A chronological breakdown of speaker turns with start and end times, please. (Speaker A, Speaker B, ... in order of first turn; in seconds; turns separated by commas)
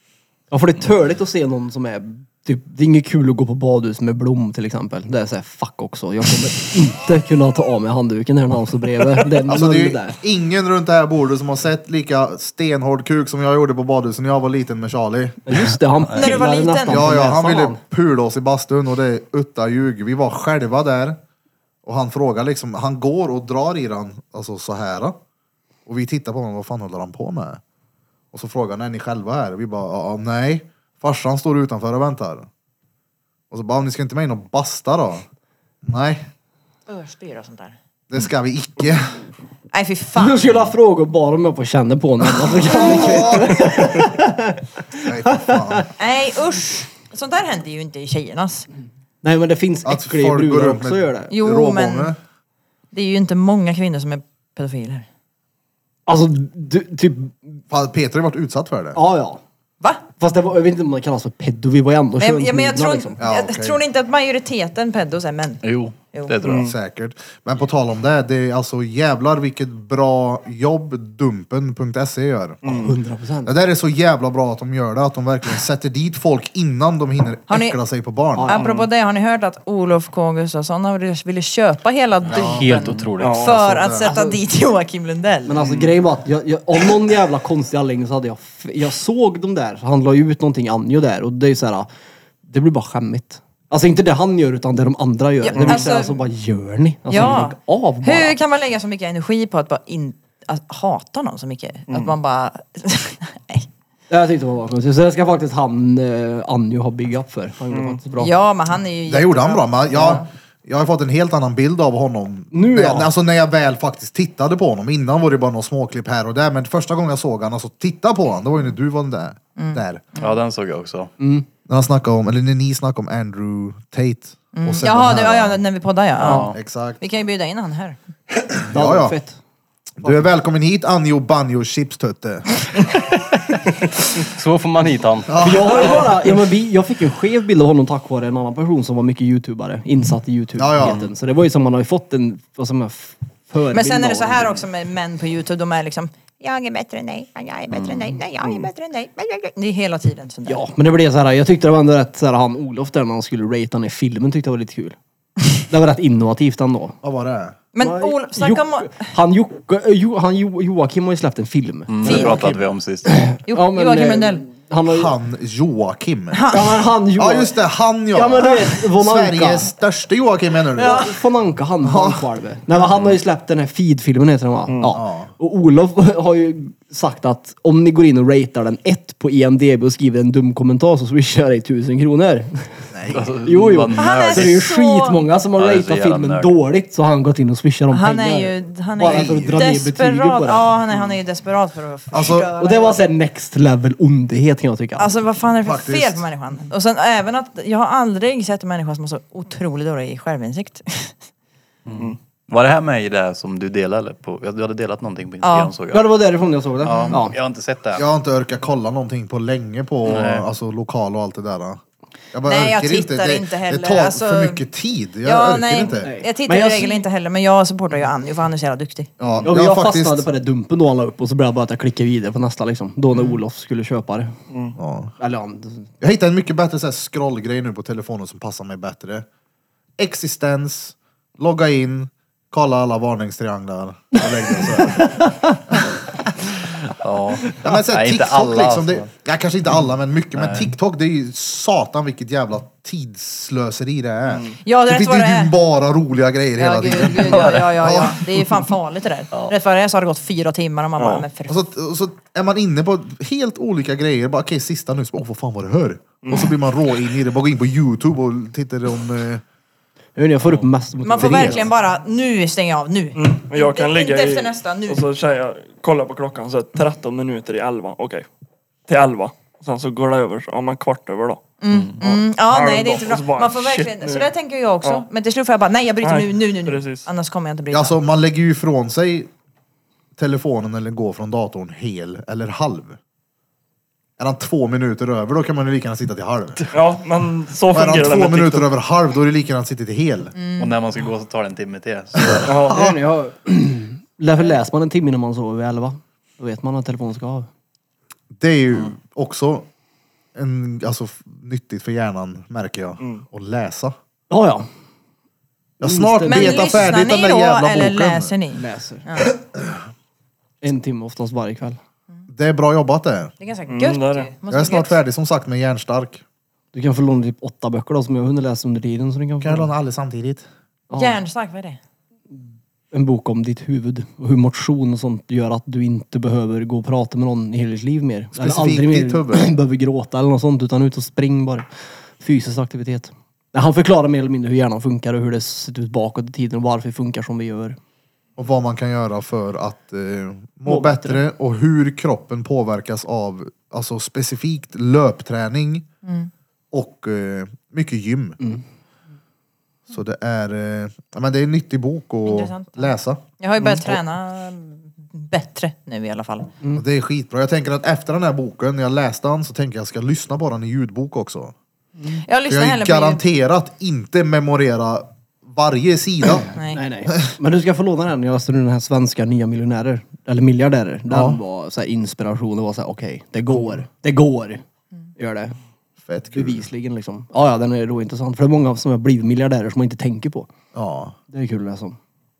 Speaker A: 0.5-10.2, Speaker B: 9.5-15.6, Speaker A: 15.5-17.8, Speaker C: 16.1-16.4, Speaker D: 16.1-17.1, Speaker B: 16.9-21.2, Speaker B: 21.9-25.2, Speaker B: 25.9-27.6, Speaker B: 28.3-32.5, Speaker B: 33.5-35.3, Speaker B: 35.9-36.3, Speaker D: 36.9-37.8, Speaker B: 38.1-39.2, Speaker D: 39.7-40.6, Speaker A: 40.2-45.9, Speaker B: 42.7-44.1, Speaker B: 45.0-45.9, Speaker D: 46.0-48.7, Speaker A: 49.2-51.3, Speaker B: 49.9-52.2, Speaker D: 51.3-52.1, Speaker D: 52.9-55.0, Speaker A: 56.1-57.6, Speaker B: 57.7-59.0, Speaker A: 59.0-59.4, Speaker A: 60.2-63.2, Speaker D: 62.2-66.4, Speaker B: 63.2-63.8, Speaker C: 65.6-66.7, Speaker E: 66.4-66.8, Speaker B: 66.5-72.7, Speaker A: 72.7-73.5, Speaker B: 73.5-78.6, Speaker D: 77.5-77.8, Speaker A: 78.4-78.7, Speaker D: 78.5-85.6, Speaker E: 78.5-78.9, Speaker B: 82.3-84.2, Speaker F: 82.4-83.5, Speaker E: 83.2-83.5, Speaker A: 84.1-84.4, Speaker A: 85.5-91.9, Speaker E: 85.6-85.9, Speaker A: 92.5-98.4, Speaker D: 95.4-96.2, Speaker E: 95.5-95.9, Speaker D: 97.1-103.7, Speaker E: 101.9-102.2, Speaker A: 104.1-108.3, Speaker E: 107.7-108.0, Speaker D: 108.2-110.3, Speaker B: 109.1-120.0, Speaker A: 112.5-113.1, Speaker D: 119.6-120.3, Speaker C: 120.2-121.1, Speaker A: 121.2-121.5, Speaker B: 121.7-125.6, Speaker D: 124.5-128.0, Speaker B: 126.2-127.0, Speaker C: 126.2-126.5, Speaker B: 128.5-129.2, Speaker A: 128.7-129.4, Speaker B: 130.0-132.7, Speaker F: 134.2-135.5, Speaker B: 135.3-136.1, Speaker A: 135.4-144.6, Speaker B: 140.6-141.1, Speaker D: 143.7-150.7, Speaker C: 147.7-148.1, Speaker A: 150.5-155.0, Speaker A: 155.7-157.0, Speaker B: 157.0-157.6, Speaker D: 157.7-159.1, Speaker A: 157.8-162.2, Speaker C: 161.9-163.1, Speaker B: 162.0-162.7, Speaker D: 162.0-162.4, Speaker A: 163.1-165.1, Speaker D: 163.5-164.4, Speaker B: 164.9-166.4, Speaker D: 166.3-166.7, Speaker A: 166.5-167.5, Speaker B: 167.2-171.1, Speaker A: 168.1-169.7, Speaker A: 170.8-182.7, Speaker B: 171.8-172.2, Speaker E: 174.7-175.0, Speaker B: 174.9-175.3, Speaker B: 182.9-183.3, Speaker C: 183.1-184.7, Speaker A: 183.4-190.7, Speaker D: 184.0-185.2, Speaker C: 185.6-186.5, Speaker D: 187.9-193.0, Speaker B: 189.0-189.6, Speaker B: 192.1-192.5, Speaker A: 192.6-195.1, Speaker D: 195.0-201.2, Speaker B: 195.6-196.3, Speaker C: 201.9-206.1, Speaker D: 205.4-205.7, Speaker A: 205.9-207.4, Speaker C: 206.8-208.1, Speaker D: 206.8-207.2, Speaker B: 208.0-211.8, Speaker C: 210.1-210.5, Speaker B: 212.3-216.1, Speaker D: 212.5-214.6, Speaker D: 215.2-219.1, Speaker A: 216.0-217.1, Speaker B: 219.2-220.3, Speaker A: 219.4-224.3, Speaker E: 224.5-224.8, Speaker B: 224.8-225.1, Speaker A: 225.2-225.9, Speaker B: 226.0-229.3, Speaker B: 230.0-236.3, Speaker A: 234.8-235.6, Speaker C: 237.0-239.1, Speaker B: 237.6-248.2, Speaker C: 240.4-240.7, Speaker D: 244.6-245.5, Speaker D: 246.6-251.6, Speaker C: 247.0-247.8, Speaker E: 251.0-251.3, Speaker B: 251.5-259.4, Speaker E: 256.2-256.6, Speaker A: 260.2-261.7, Speaker D: 261.0-265.1, Speaker B: 261.2-261.7, Speaker E: 263.1-268.3, Speaker E: 268.9-271.4, Speaker D: 271.6-277.9, Speaker E: 272.0-274.3, Speaker E: 276.0-277.1, Speaker B: 277.7-279.3, Speaker B: 280.2-283.0, Speaker B: 284.2-286.6, Speaker E: 286.7-288.7, Speaker B: 287.7-290.4, Speaker D: 290.4-290.8, Speaker C: 290.6-292.6, Speaker B: 292.1-292.9, Speaker E: 292.5-293.0, Speaker A: 292.7-297.5, Speaker B: 298.4-299.7, Speaker B: 300.4-303.9, Speaker A: 304.3-304.7, Speaker B: 305.8-308.4, Speaker A: 305.8-306.7, Speaker D: 306.2-309.3, Speaker A: 308.5-309.1, Speaker A: 310.6-311.8, Speaker B: 312.3-313.3, Speaker D: 313.4-315.0, Speaker E: 313.7-314.3, Speaker B: 314.5-316.2, Speaker A: 316.7-319.7, Speaker B: 319.4-320.5, Speaker A: 320.9-321.2, Speaker D: 320.9-321.8, Speaker A: 322.3-331.7, Speaker B: 328.4-329.5, Speaker A: 332.2-337.8, Speaker B: 338.4-345.9, Speaker A: 340.7-341.2, Speaker D: 346.1-346.3, Speaker B: 346.7-348.4, Speaker B: 349.9-353.2, Speaker D: 352.3-356.5, Speaker B: 356.7-361.5, Speaker D: 362.1-363.2, Speaker B: 362.4-366.5, Speaker D: 366.6-366.8, Speaker A: 366.7-374.6, Speaker B: 371.1-371.4, Speaker A: 375.2-375.6, Speaker B: 376.0-376.6, Speaker A: 376.3-380.5, Speaker B: 380.7-381.2, Speaker A: 381.3-382.0